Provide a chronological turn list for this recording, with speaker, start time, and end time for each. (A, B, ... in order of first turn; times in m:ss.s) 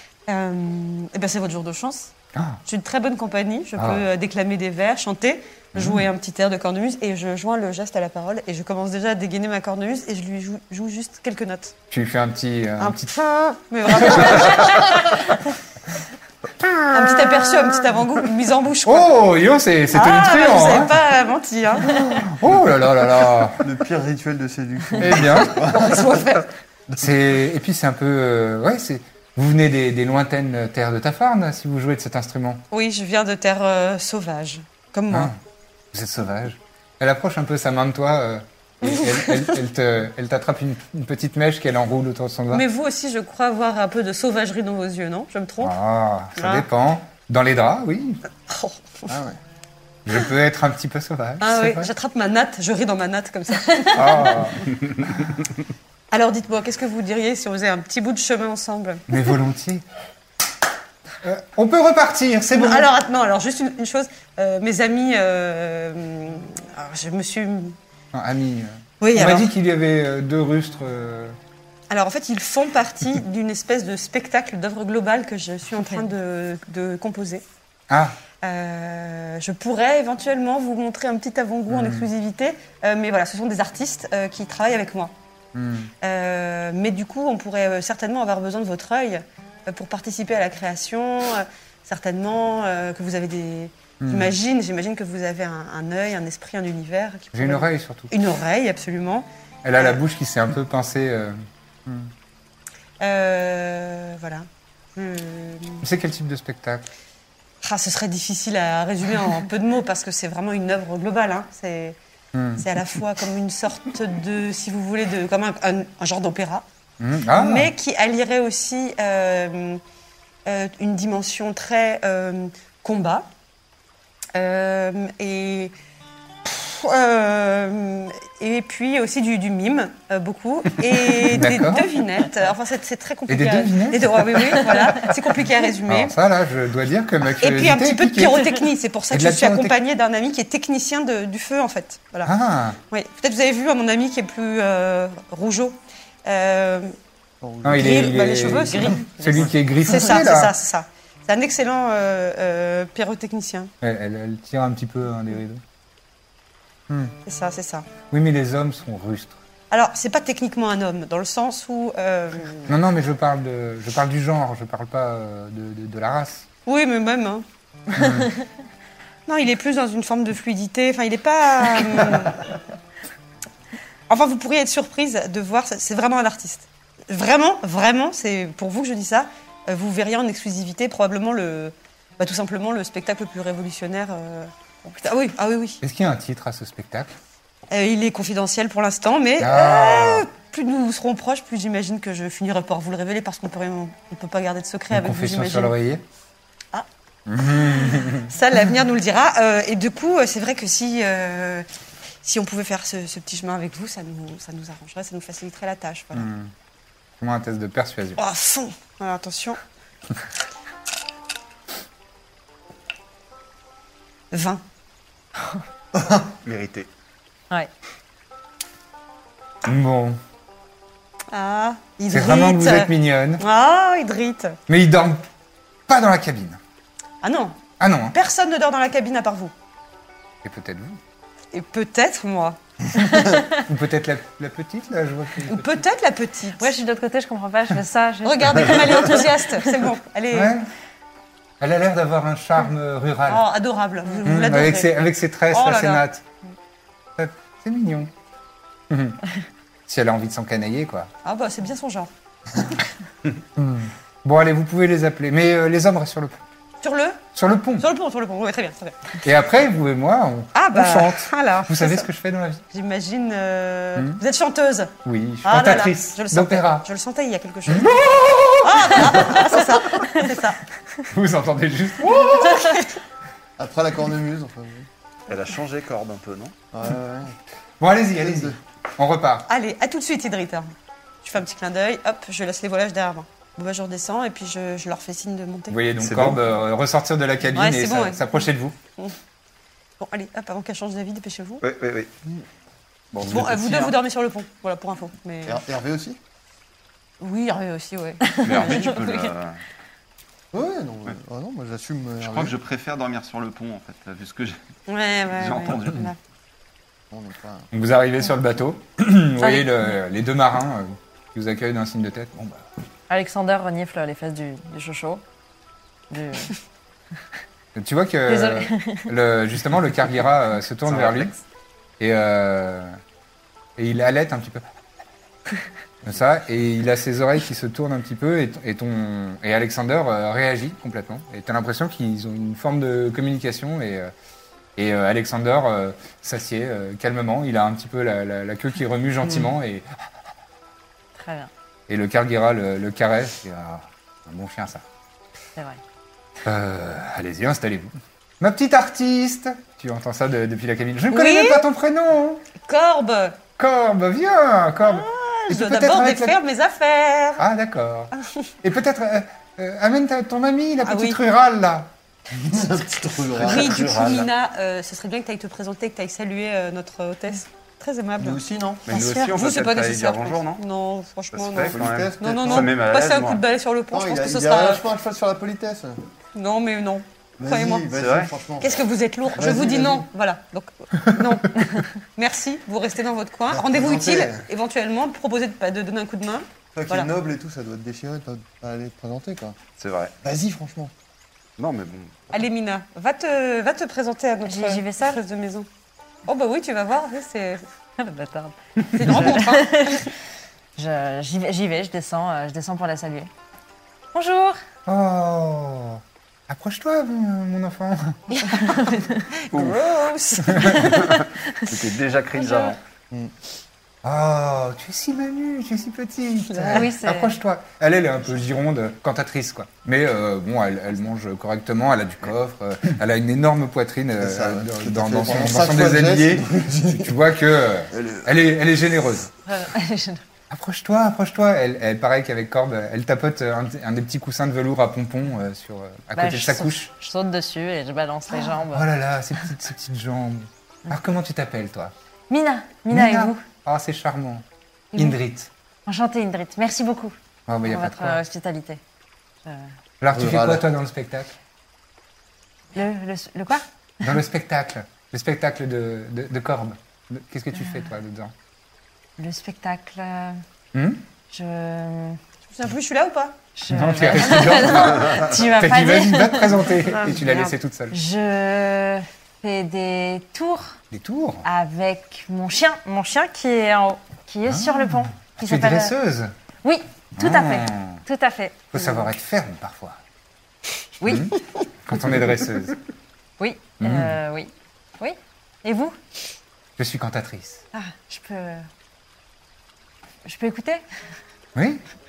0:00.3-0:02.1 A
0:02.3-0:02.6 B
0:02.7-0:11.8 A
0:03.8-0:04.1 B
0:05.8-0:06.1 B
0:11.9-0:13.1 B
0:12.8-0:14.9 A
0:13.9-0:15.2 B
0:16.9-0:19.1 A
0:18.8-0:21.0 B
0:19.9-0:22.0 A
0:21.8-0:23.7 B
0:23.5-0:26.3 C
0:25.0-0:25.8 B
0:25.3-0:26.5 A
0:27.0-0:32.6 B
0:32.7-0:35.3 A
0:35.1-0:35.4 B
0:35.9-0:42.7 B
0:39.0-0:39.6 A
0:42.5-0:45.8 A
0:45.6-0:48.2 B
0:46.4-0:46.7 A
0:48.5-0:49.1 A
0:49.1-0:49.4 C
0:50.1-0:51.9 B
0:51.4-0:54.5 A
0:53.9-0:55.4 B
0:56.1-0:59.1 A
0:59.1-0:59.8 B
1:01.2-1:02.9 B
1:02.5-1:07.8 A
1:08.1-1:11.4 B
1:09.0-1:09.5 A
1:11.9-1:17.4 A
1:17.9-1:18.2 B
1:18.4-1:25.1 A
1:21.7-1:22.1 B
1:25.5-1:25.9 B
1:26.0-1:40.0 A
1:34.0-1:34.3 B
1:37.3-1:38.1 B
1:39.6-1:42.1 B
1:43.0-1:45.8 A
1:45.8-1:46.9 B
1:47.6-1:52.0 A
1:52.3-1:52.7 B
1:52.6-1:56.6 A
1:57.0-1:57.7 B
1:57.3-1:59.8 A
2:00.5-2:03.3 A
2:04.4-2:05.7 A
2:06.4-2:16.2 A
2:11.2-2:11.9 B
2:13.3-2:15.2 B
2:15.8-2:18.6 B
2:17.4-2:22.3 A
2:19.1-2:19.8 B
2:22.2-2:22.8 B
2:22.9-2:26.9 A
2:27.4-2:29.0 C
2:27.6-2:30.6 B
2:27.7-2:33.7 A
2:33.8-2:35.6 B
2:36.9-2:37.1 B
2:37.2-2:37.9 A
2:38.1-2:39.4 B
2:39.7-2:42.7 A
2:42.7-2:46.5 B
2:46.7-2:47.4 A
2:47.9-2:48.3 B
2:49.3-2:52.6 A
2:54.1-3:05.8 A
3:05.8-3:07.1 B
3:07.7-3:15.7 A
3:09.4-3:10.3 B
3:14.9-3:16.0 B
3:17.3-3:18.3 B
3:17.4-3:21.7 A
3:22.2-3:26.3 A
3:26.1-3:26.5 B
3:27.2-3:28.2 B
3:28.2-3:29.6 A
3:34.3-3:34.6 A
3:36.0-3:36.3 C
3:36.4-3:36.9 D
3:39.6-3:40.2 B
3:41.3-3:44.6 A
3:42.1-3:43.4 B
3:44.7-3:45.2 B
3:45.9-3:46.6 B
3:47.2-3:47.6 A
3:47.8-3:48.2 B
3:48.1-3:49.5 A
3:50.4-3:51.0 B
3:51.5-3:52.6 A
3:53.5-3:55.7 B
3:55.5-3:56.8 A
3:56.6-3:59.3 E
3:58.2-4:00.5 A
4:00.3-4:00.7 B
4:01.6-4:03.5 B
4:03.3-4:06.1 A
4:04.2-4:06.2 B
4:07.2-4:08.1 B
4:08.9-4:09.2 B
4:09.9-4:11.1 B
4:11.2-4:12.1 A
4:13.6-4:16.4 B
4:16.8-4:17.2 A
4:17.4-4:17.9 B
4:17.8-4:19.2 A
4:19.2-4:22.6 B
4:20.5-4:22.1 A
4:22.7-4:28.0 A
4:24.0-4:24.2 B
4:25.0-4:26.9 B
4:27.7-4:30.1 B
4:28.6-4:30.6 A
4:31.1-4:32.9 B
4:32.4-4:32.9 A
4:33.6-4:34.9 C
4:35.3-4:36.5 D
4:36.7-4:37.4 C
4:37.8-4:39.5 B
4:38.2-4:38.6 C
4:39.5-4:45.8 A
4:45.7-4:48.8 B
4:46.0-4:46.4 D
4:47.5-4:48.5 A
4:50.0-4:51.6 A
4:51.6-4:52.1 D
4:53.1-4:54.0 D
4:53.3-4:55.6 A
4:55.5-4:56.2 C
4:57.2-4:59.0 A
4:58.3-4:58.7 E
4:58.4-4:59.6 D
5:00.5-5:02.6 C
5:02.2-5:04.6 D
5:04.9-5:06.2 A
5:05.4-5:06.1 D
5:07.1-5:07.7 C
5:07.7-5:12.7 B
5:13.1-5:15.2 E
5:16.1-5:16.6 E
5:17.8-5:21.3 B
5:18.3-5:19.1 E
5:20.8-5:21.4 D
5:22.0-5:23.0 B
5:23.8-5:24.6 B
5:26.0-5:34.1 B
5:34.8-5:39.9 B
5:41.2-5:41.5 E
5:41.9-5:44.8 B
5:46.4-5:52.4 B
5:51.1-5:51.6 A
5:52.6-5:53.4 A
5:53.6-5:56.4 B
5:54.8-5:57.4 A
5:57.4-5:58.1 B
5:58.2-5:58.5 A
5:58.6-6:01.9 B
6:00.8-6:01.2 A
6:02.3-6:04.3 C
6:03.4-6:04.3 D
6:03.4-6:14.8 A
6:08.2-6:09.0 C
6:08.9-6:10.6 D
6:11.3-6:13.4 D
6:11.6-6:12.7 C
6:13.9-6:16.0 C
6:16.4-6:17.9 A
6:17.4-6:20.1 C
6:17.9-6:18.3 D
6:18.6-6:27.1 A
6:23.5-6:24.5 C
6:26.7-6:29.6 C
6:29.8-6:30.2 D
6:30.2-6:30.9 C
6:31.6-6:32.3 D
6:32.3-6:35.7 A
6:34.5-6:35.2 E
6:36.3-6:37.6 A
6:38.0-6:40.1 E
6:38.9-6:40.1 A
6:40.8-6:43.3 E
6:44.1-6:44.6 E
6:44.9-6:48.2 B
6:48.3-6:49.2 E
6:49.3-6:50.8 A
6:49.5-6:49.8 D
6:50.8-6:52.8 D
6:50.8-6:51.7 E
6:52.4-6:52.7 E
6:54.0-7:09.3 B
6:56.7-6:57.4 E
7:04.2-7:07.2 C
7:07.9-7:08.3 C
7:09.5-7:10.2 E
7:10.5-7:16.9 B
7:16.2-7:18.9 E
7:18.3-7:21.9 B
7:22.3-7:23.4 E
7:22.9-7:25.5 B
7:25.9-7:28.8 E
7:27.5-7:28.2 B
7:29.4-7:29.7 E
7:30.0-7:31.3 B
7:30.1-7:30.7 C
7:32.7-7:33.6 E
7:34.0-7:38.3 B
7:39.2-7:40.4 E
7:40.7-7:41.0 B
7:41.3-7:42.2 E
7:42.5-7:43.4 A
7:43.6-7:50.8 E
7:43.7-7:48.0 B
7:47.0-7:47.4 A
7:50.9-7:51.5 B
7:51.4-7:56.0 E
7:54.5-7:56.3 B
7:56.6-7:59.1 E
7:57.2-7:58.0 B
7:58.7-8:00.0 B
8:01.0-8:01.4 E
8:01.0-8:02.8 B
8:03.4-8:06.0 E
8:03.8-8:04.2 B
8:06.8-8:07.6 B
8:07.7-8:08.7 E
8:10.2-8:10.8 E
8:11.6-8:11.8 B